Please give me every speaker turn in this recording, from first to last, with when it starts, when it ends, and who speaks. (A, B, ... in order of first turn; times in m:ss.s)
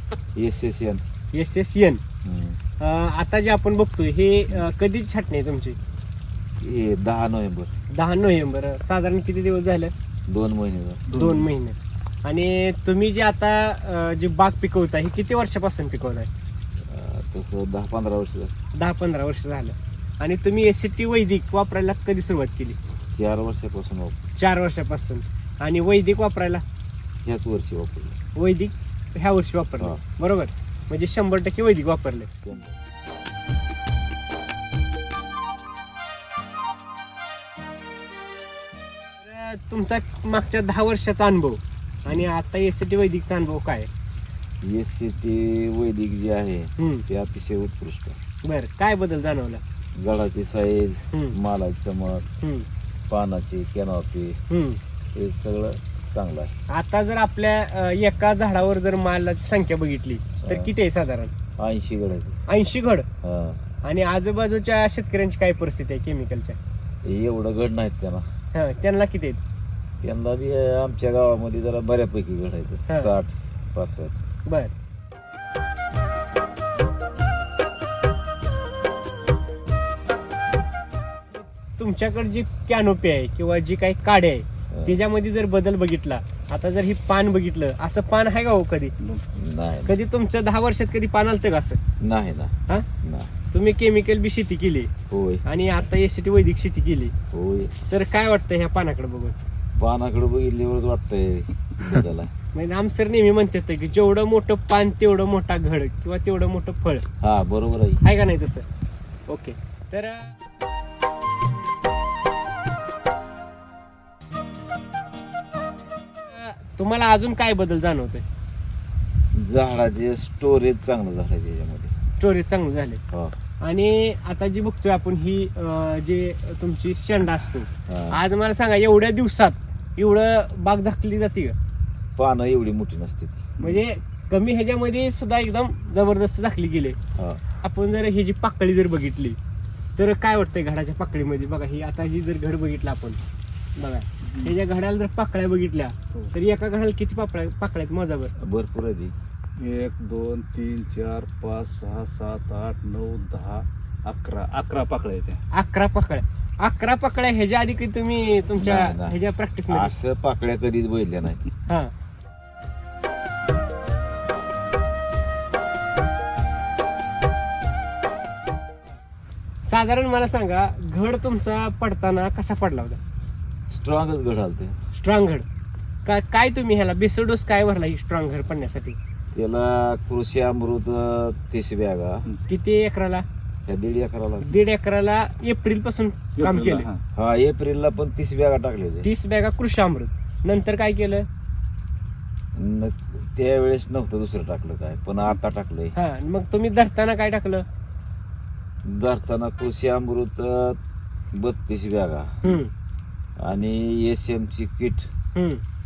0:00.4-0:01.0 A
0:01.3-0:02.0 B
0:02.2-0:02.6 A
0:02.8-0:05.8 B
0:06.6-0:07.7 A
0:07.9-0:09.9 B
0:10.3-0:11.0 A
0:11.1-0:11.5 C
0:11.1-0:16.3 B
0:16.9-0:18.5 A
0:18.8-0:22.8 B
0:23.1-0:24.3 A
0:24.4-0:26.6 B
0:27.2-0:28.2 A
0:28.4-0:32.3 B
0:32.4-0:32.8 A
0:39.2-0:43.9 B
0:44.6-0:48.2 A
0:46.8-0:47.0 B
0:48.4-0:49.6 B
0:50.0-0:52.3 A
0:52.4-0:52.7 B
0:53.1-0:54.4 A
0:54.5-0:54.8 B
0:55.1-0:56.5 A
0:56.7-1:01.3 B
1:00.4-1:00.7 A
1:01.6-1:02.4 A
1:02.5-1:03.1 B
1:03.2-1:03.6 A
1:03.8-1:06.6 B
1:07.0-1:08.3 A
1:08.5-1:09.4 B
1:10.0-1:14.1 A
1:14.5-1:14.7 B
1:21.3-1:28.9 B
1:24.7-1:25.0 A
1:29.3-1:29.9 A
1:29.9-1:31.8 B
1:32.0-1:33.3 A
1:33.5-1:34.9 B
1:35.1-1:35.4 A
1:35.5-1:37.1 B
1:37.3-1:37.7 A
1:37.9-1:39.4 B
1:39.8-1:42.3 A
1:42.5-1:47.0 B
1:47.2-1:48.0 A
1:48.0-1:48.6 B
1:49.3-1:50.3 B
1:56.2-1:58.2 B
1:59.3-2:01.9 A
2:02.2-2:03.0 B
2:03.1-2:03.4 A
2:03.6-2:11.6 B
2:07.9-2:08.2 A
2:12.2-2:13.7 A
2:13.6-2:17.0 B
2:17.2-2:17.4 A
2:17.6-2:19.4 B
2:20.0-2:23.2 B
2:23.8-2:28.3 B
2:24.2-2:24.5 C
2:28.4-2:29.1 A
2:29.6-2:35.4 C
2:35.5-2:39.9 B
2:38.6-2:41.4 A
2:41.7-2:41.9 B
2:49.6-2:53.0 B
2:53.7-2:54.8 A
2:54.9-2:55.4 B
2:56.0-2:59.0 B
2:59.3-3:02.3 A
3:02.5-3:03.2 B
3:03.7-3:04.6 A
3:04.4-3:06.9 B
3:06.4-3:07.0 C
3:07.2-3:09.1 A
3:09.0-3:11.3 B
3:12.6-3:16.0 A
3:16.0-3:17.6 B
3:18.8-3:20.8 A
3:21.3-3:22.4 A
3:22.4-3:22.7 B
3:23.4-3:25.1 A
3:25.4-3:25.6 B